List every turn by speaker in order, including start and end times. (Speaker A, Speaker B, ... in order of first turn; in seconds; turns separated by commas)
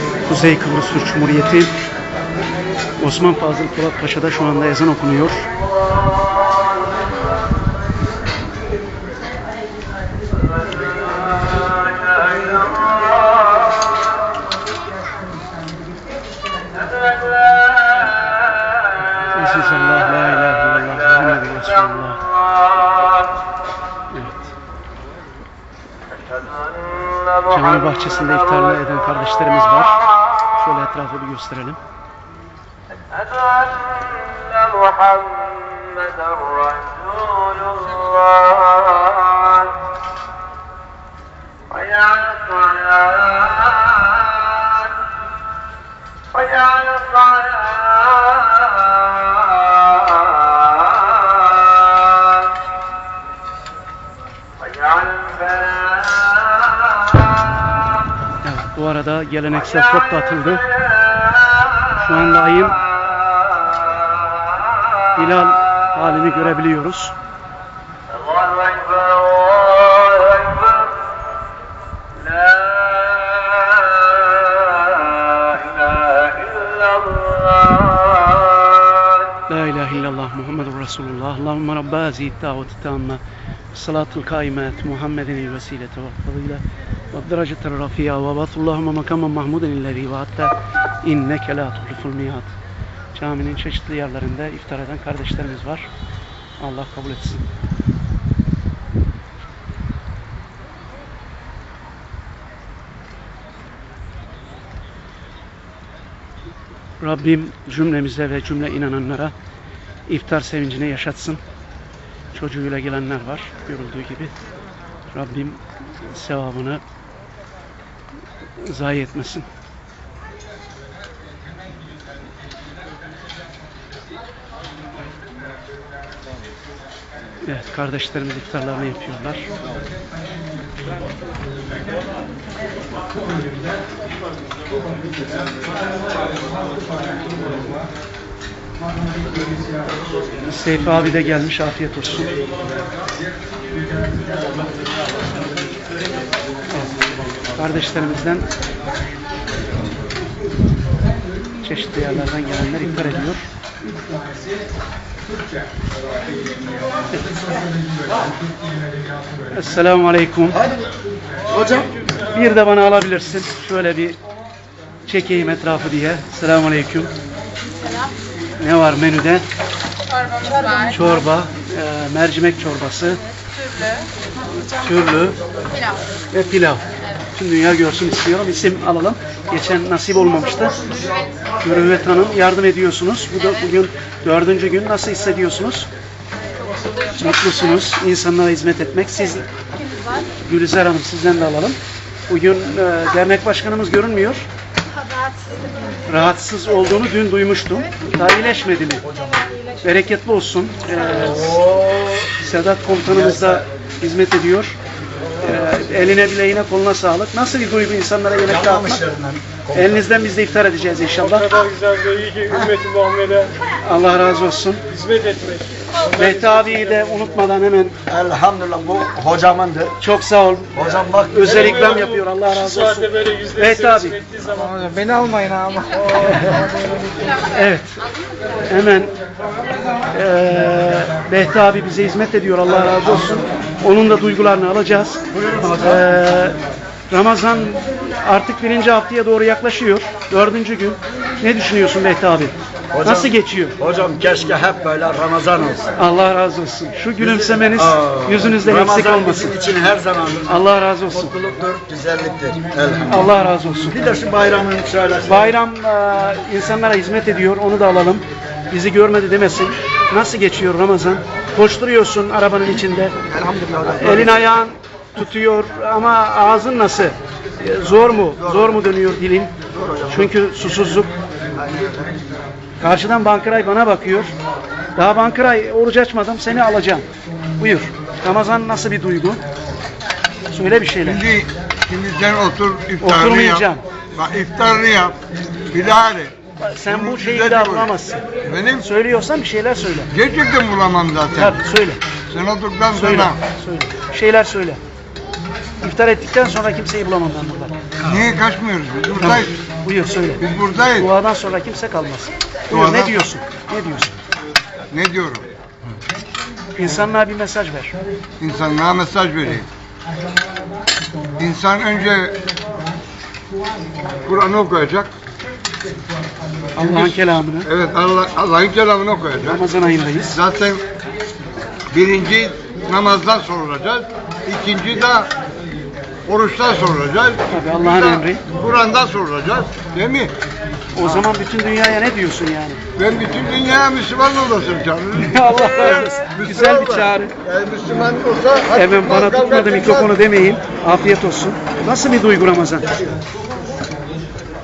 Speaker A: 0.3-1.7, Speaker A: 3.0-5.5, Speaker A: 19.3-22.2, Speaker A: 24.1-24.5, Speaker A: 27.4-30.0, Speaker A: 30.6-31.8, Speaker B: 34.2-35.2, Speaker A: 58.4-60.7, Speaker A: 61.9-62.8, Speaker A: 65.2-67.2, Speaker A: 79.5-83.2, Speaker A: 83.7-92.5, Speaker A: 93.1-95.9, Speaker A: 96.6-97.4, Speaker A: 107.0-109.3, Speaker A: 110.1-111.4, Speaker A: 112.3-114.3, Speaker A: 115.1-116.8, Speaker A: 118.6-119.5, Speaker A: 127.4-129.5, Speaker A: 140.4-142.3, Speaker A: 147.6-148.5, Speaker A: 151.6-153.4, Speaker A: 159.5-160.7, Speaker A: 162.2-164.2, Speaker A: 165.1-167.1, Speaker A: 168.6-169.4, Speaker C: 170.3-170.8, Speaker A: 170.8-173.2, Speaker A: 174.8-175.4, Speaker A: 176.3-180.9, Speaker A: 181.6-185.9, Speaker A: 187.2-189.5, Speaker A: 190.4-194.5, Speaker A: 196.1-199.1, Speaker A: 199.8-201.6, Speaker D: 201.8-202.1, Speaker A: 202.3-204.8, Speaker A: 205.4-209.1, Speaker B: 208.5-209.8, Speaker A: 209.7-211.7, Speaker C: 211.7-213.5, Speaker A: 213.7-214.8, Speaker C: 214.9-215.9, Speaker A: 216.0-218.0, Speaker B: 218.1-219.9, Speaker D: 218.1-219.8, Speaker A: 220.0-224.2, Speaker B: 220.8-221.5, Speaker C: 224.2-224.8, Speaker D: 225.2-226.0, Speaker A: 226.1-226.7, Speaker A: 227.3-228.0, Speaker A: 228.6-229.1, Speaker A: 230.1-236.6, Speaker B: 235.4-235.8, Speaker A: 237.1-243.8, Speaker B: 242.9-245.9, Speaker A: 246.0-249.5, Speaker B: 247.8-250.5, Speaker A: 250.4-251.3, Speaker B: 251.2-253.3, Speaker A: 253.1-254.0, Speaker B: 253.9-255.3, Speaker A: 255.3-263.2, Speaker D: 263.3-264.4, Speaker A: 263.9-269.5, Speaker D: 269.7-270.2, Speaker A: 270.1-271.1, Speaker D: 271.6-272.0, Speaker A: 272.8-274.3, Speaker A: 275.0-277.1, Speaker A: 277.6-279.4, Speaker A: 280.5-281.2, Speaker D: 281.0-285.2, Speaker A: 283.0-283.8, Speaker D: 285.7-286.3, Speaker A: 286.6-288.2, Speaker D: 286.9-287.9, Speaker D: 288.4-288.9, Speaker A: 288.8-290.1, Speaker D: 290.1-291.6, Speaker A: 291.3-292.0, Speaker D: 292.3-293.4, Speaker A: 292.9-294.8, Speaker A: 295.8-297.7, Speaker D: 298.0-299.5, Speaker A: 299.2-300.4, Speaker D: 300.4-301.1, Speaker A: 301.0-304.1, Speaker D: 302.7-303.2, Speaker D: 304.9-305.4, Speaker A: 306.8-307.9, Speaker D: 308.4-309.7, Speaker D: 311.4-312.4, Speaker D: 314.3-315.1, Speaker A: 316.8-317.7, Speaker D: 316.8-319.6, Speaker A: 319.5-320.4, Speaker D: 320.3-320.8, Speaker D: 321.9-325.3, Speaker D: 326.3-330.3, Speaker A: 327.5-328.4, Speaker A: 330.9-332.8, Speaker D: 333.0-340.1, Speaker A: 335.2-337.3, Speaker A: 338.7-343.2